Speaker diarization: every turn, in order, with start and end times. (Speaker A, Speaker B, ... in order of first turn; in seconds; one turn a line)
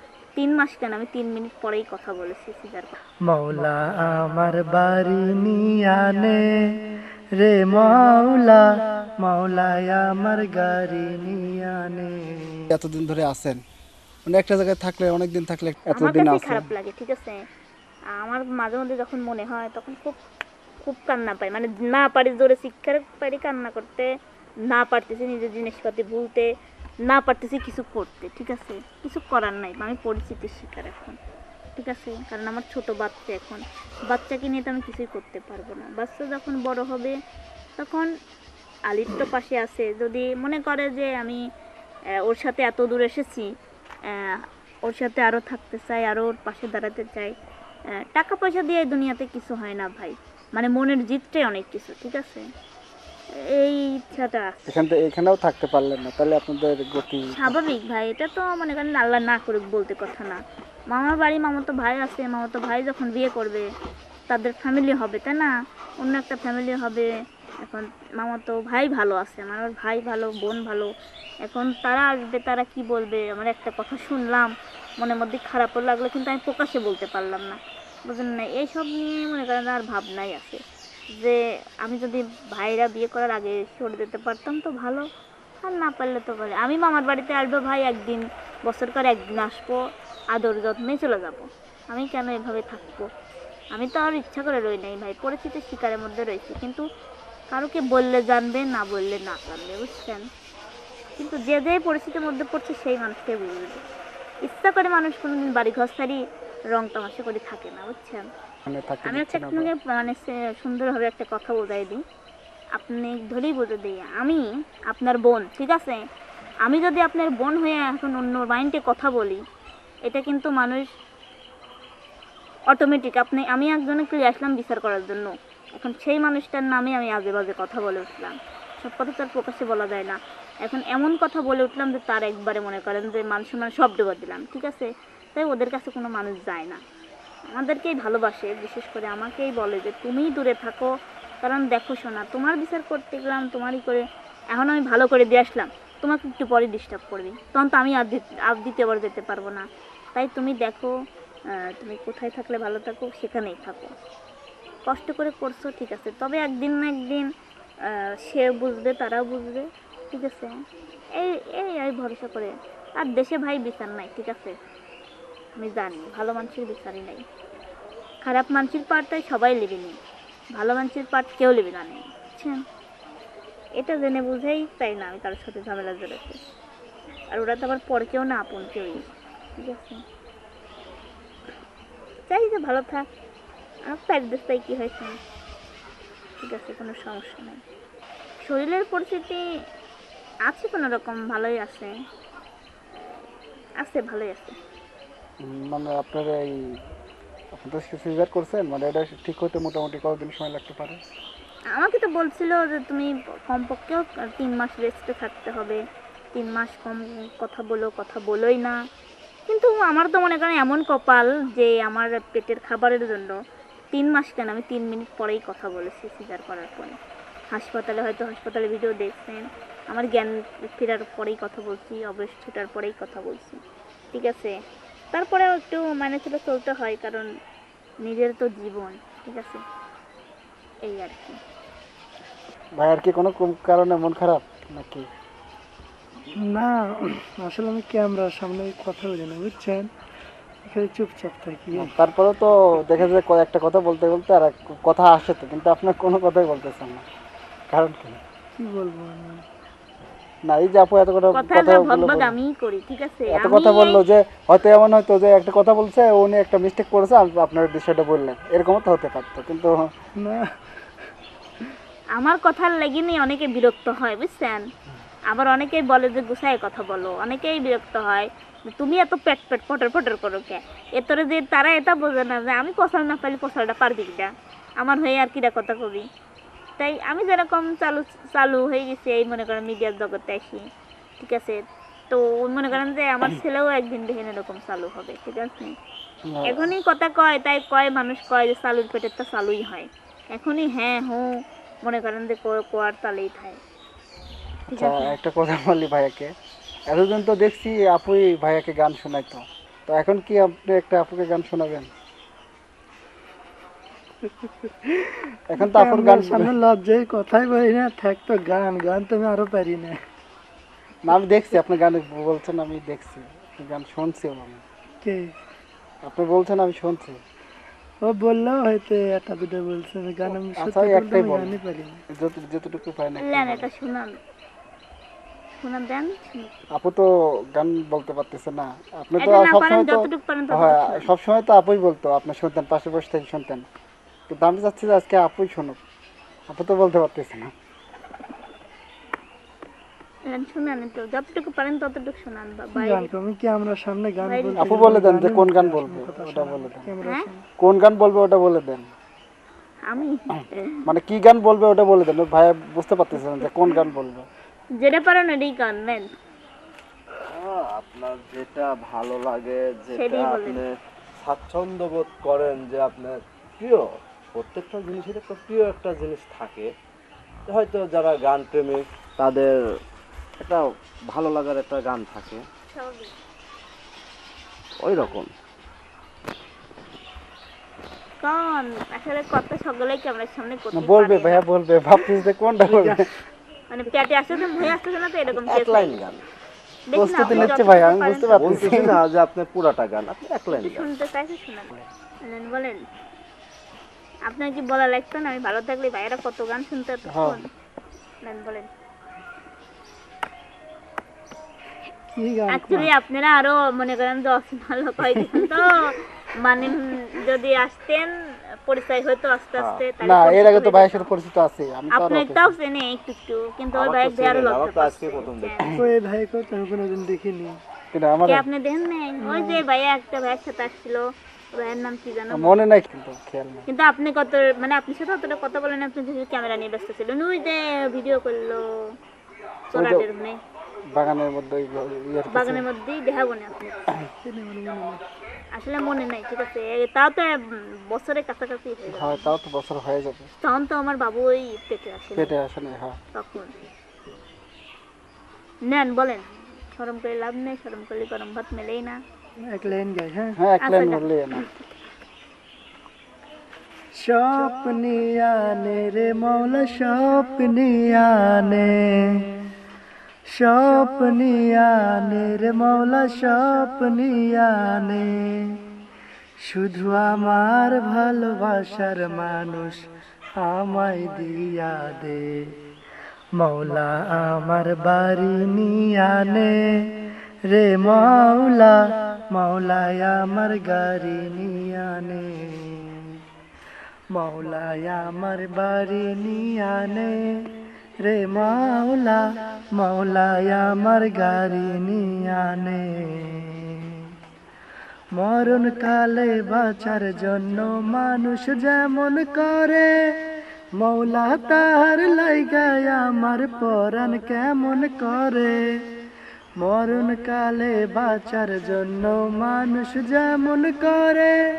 Speaker A: 0.4-2.9
Speaker B: 3.3-6.5
Speaker B: 7.4-8.6
Speaker B: 9.2-12.6
Speaker C: 12.7-13.6
Speaker C: 14.2-16.7
Speaker A: 15.9-17.4
Speaker A: 18.1-20.2
Speaker A: 20.8-24.1
Speaker A: 24.7-26.5
Speaker A: 27.1-31.2
Speaker A: 31.8-37.1
Speaker A: 37.8-38.1
Speaker A: 38.9-41.4
Speaker A: 42.2-43.5
Speaker A: 44.1-47.3
Speaker A: 48.0-52.4
Speaker A: 53.3-54.6
Speaker C: 54.7-57.5
Speaker A: 57.3-60.4
Speaker A: 60.9-63.6
Speaker A: 64.3-67.1
Speaker A: 67.6-70.9
Speaker A: 71.4-80.6
Speaker A: 81.1-85.0
Speaker A: 85.6-89.8
Speaker A: 90.3-93.1
Speaker A: 93.7-96.8
Speaker A: 97.5-100.2
Speaker A: 101.2-103.8
Speaker A: 104.4-106.2
Speaker A: 106.7-108.2
Speaker C: 108.7-109.7
Speaker A: 109.0-112.0
Speaker A: 112.8-116.0
Speaker A: 116.6-119.4
Speaker A: 120.0-120.8
Speaker A: 122.7-136.8
Speaker A: 137.5-140.9
Speaker A: 141.4-150.9
Speaker A: 151.7-153.9
Speaker A: 154.9-157.3
Speaker A: 157.8-160.5
Speaker A: 161.1-164.5
Speaker A: 165.6-167.2
Speaker A: 168.2-170.0
Speaker A: 170.5-172.6
Speaker A: 173.8-176.4
Speaker A: 177.3-180.0
Speaker A: 182.3-183.1
Speaker A: 183.9-185.2
Speaker A: 186.4-187.6
Speaker A: 188.4-189.4
Speaker A: 190.5-191.9
Speaker A: 193.8-194.6
Speaker C: 195.4-196.8
Speaker C: 197.5-201.0
Speaker A: 201.7-205.8
Speaker A: 206.3-208.8
Speaker A: 209.5-213.4
Speaker A: 213.9-216.9
Speaker A: 217.5-223.6
Speaker A: 224.1-224.5
Speaker A: 225.1-227.3
Speaker A: 228.0-229.6
Speaker A: 230.8-231.4
Speaker C: 232.8-235.1
Speaker B: 236.4-239.9
Speaker B: 240.6-241.9
Speaker C: 241.7-247.0
Speaker C: 247.7-248.2
Speaker B: 248.6-249.4
Speaker C: 250.4-252.3
Speaker A: 251.3-254.0
Speaker C: 253.3-259.9
Speaker B: 260.2-260.5
Speaker A: 262.1-264.6
Speaker A: 265.3-276.1
Speaker A: 276.8-280.6
Speaker A: 281.2-285.7
Speaker C: 286.3-286.7
Speaker A: 286.4-291.3
Speaker A: 291.8-293.6
Speaker A: 294.7-295.1
Speaker C: 294.7-296.3
Speaker C: 296.9-301.9
Speaker B: 304.4-310.0
Speaker C: 305.5-306.5
Speaker C: 311.0-314.6
Speaker B: 315.0-315.3
Speaker C: 316.0-317.2
Speaker B: 318.0-322.0
Speaker C: 320.6-321.5
Speaker C: 322.1-323.7
Speaker A: 323.2-324.1
Speaker A: 325.6-326.5
Speaker C: 326.7-333.6
Speaker A: 329.2-331.1
Speaker C: 334.3-335.8
Speaker C: 336.5-337.5
Speaker A: 340.3-343.1
Speaker B: 342.7-347.4
Speaker A: 344.2-345.0
Speaker C: 344.6-346.9
Speaker C: 347.6-348.9
Speaker A: 349.9-350.8
Speaker C: 350.8-354.3
Speaker A: 354.8-356.1
Speaker D: 357.3-366.7
Speaker A: 359.9-360.6
Speaker D: 367.5-369.6
Speaker D: 370.4-372.4
Speaker A: 372.7-373.1
Speaker D: 374.8-375.3
Speaker A: 374.9-375.2
Speaker A: 378.2-381.4
Speaker C: 380.7-383.1
Speaker A: 383.7-386.0
Speaker D: 385.3-386.2
Speaker A: 386.9-388.3
Speaker C: 386.9-389.0
Speaker D: 387.3-387.6
Speaker D: 388.3-390.9
Speaker A: 390.5-391.7
Speaker A: 392.2-392.8
Speaker A: 394.3-397.4
Speaker C: 397.1-397.4
Speaker A: 398.2-398.7
Speaker B: 402.1-402.9
Speaker A: 402.5-408.1
Speaker A: 408.6-411.1
Speaker D: 409.6-409.8
Speaker C: 410.0-412.5
Speaker A: 411.9-415.7
Speaker D: 413.7-415.7
Speaker B: 415.7-417.6
Speaker C: 417.9-418.4
Speaker A: 418.3-422.5
Speaker B: 419.2-419.6
Speaker C: 422.3-423.7
Speaker A: 423.7-428.9
Speaker A: 429.7-430.4
Speaker C: 429.7-430.1
Speaker C: 430.9-432.6
Speaker A: 432.3-433.9
Speaker B: 434.2-435.0
Speaker A: 435.5-439.3
Speaker C: 438.9-440.3
Speaker A: 440.4-442.3
Speaker C: 442.1-443.0
Speaker A: 443.1-443.5
Speaker A: 445.6-449.0
Speaker B: 449.4-450.4
Speaker C: 450.4-451.4
Speaker A: 450.6-451.9
Speaker B: 453.9-458.7
Speaker B: 460.3-465.5
Speaker B: 466.4-469.8
Speaker B: 470.4-472.4
Speaker B: 473.4-476.7
Speaker B: 477.5-483.1
Speaker B: 484.1-487.2
Speaker B: 488.0-489.2
Speaker B: 489.7-494.0
Speaker B: 495.1-499.9
Speaker B: 500.8-505.6
Speaker B: 506.6-511.4